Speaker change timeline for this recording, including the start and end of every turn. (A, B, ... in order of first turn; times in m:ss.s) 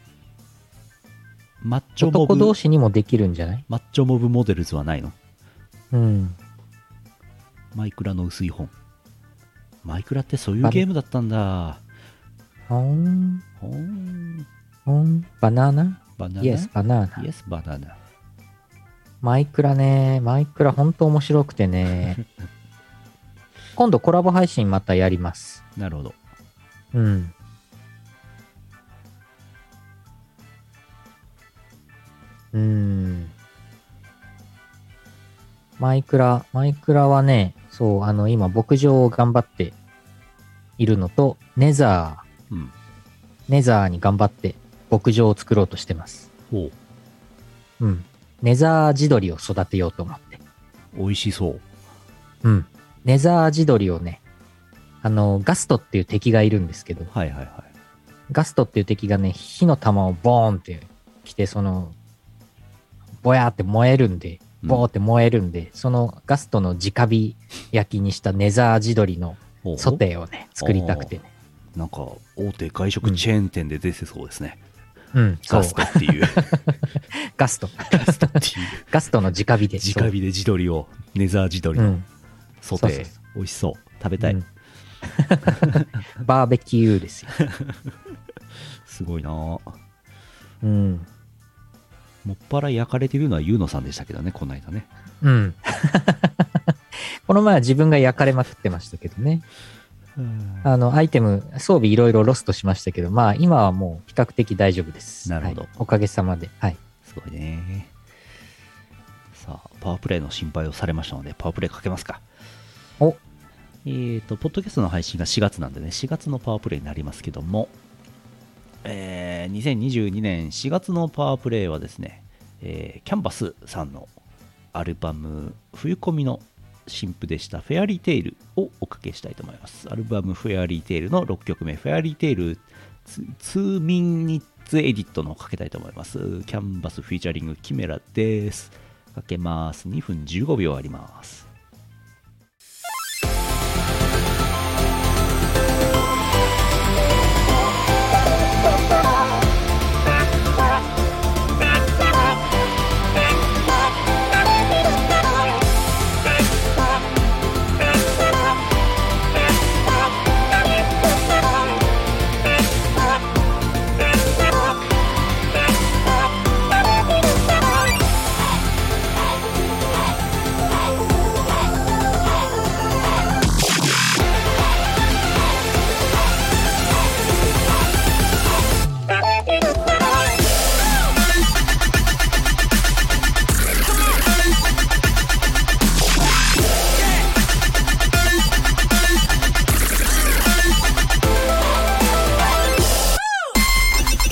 0:01.6-0:02.6 A
0:02.0-0:03.6 B
0:03.7-0:05.2 A
0:05.9-0:06.4 B
0:07.7-0:08.7 A
0:09.8-0:11.8 A
0:12.7-0:13.4 B
0:13.6-0:14.5 A
0:14.9-0:17.2 B
0:16.2-0:18.0 A
0:19.2-0:22.2 B
0:23.8-0:25.6 B
0:25.8-0:26.2 A
0:26.9-0:27.3 B
0:32.5-0:33.3 B
0:35.8-0:39.8 B
0:40.8-0:42.2 B
0:43.5-0:46.3 B
0:47.8-0:50.4 B
0:50.9-0:51.6 A
0:52.4-0:54.2 B
0:55.0-0:57.1 B
0:57.1-0:57.7 A
0:58.3-1:01.9 B
1:03.2-1:11.3 B
1:04.6-1:04.9 A
1:09.6-1:10.0 A
1:10.6-1:11.1 A
1:11.7-1:14.6 A
1:15.1-1:20.1 B
1:15.4-1:16.6 A
1:17.9-1:18.8 A
1:19.8-1:22.0 A
1:21.8-1:22.0 B
1:22.6-1:24.4 A
1:22.8-1:23.1 B
1:24.2-1:24.4 B
1:25.0-1:27.4 B
1:27.4-1:27.8 A
1:28.6-1:29.7 A
1:30.6-1:31.1 B
1:32.2-1:34.9 A
1:35.2-1:39.4 B
1:40.2-1:40.7 A
1:40.6-1:46.8 B
1:45.2-1:45.7 A
1:47.0-1:47.9 A
1:49.3-1:52.2 A
1:53.8-1:57.7 A
1:58.8-2:04.1 A
2:04.7-2:21.5 A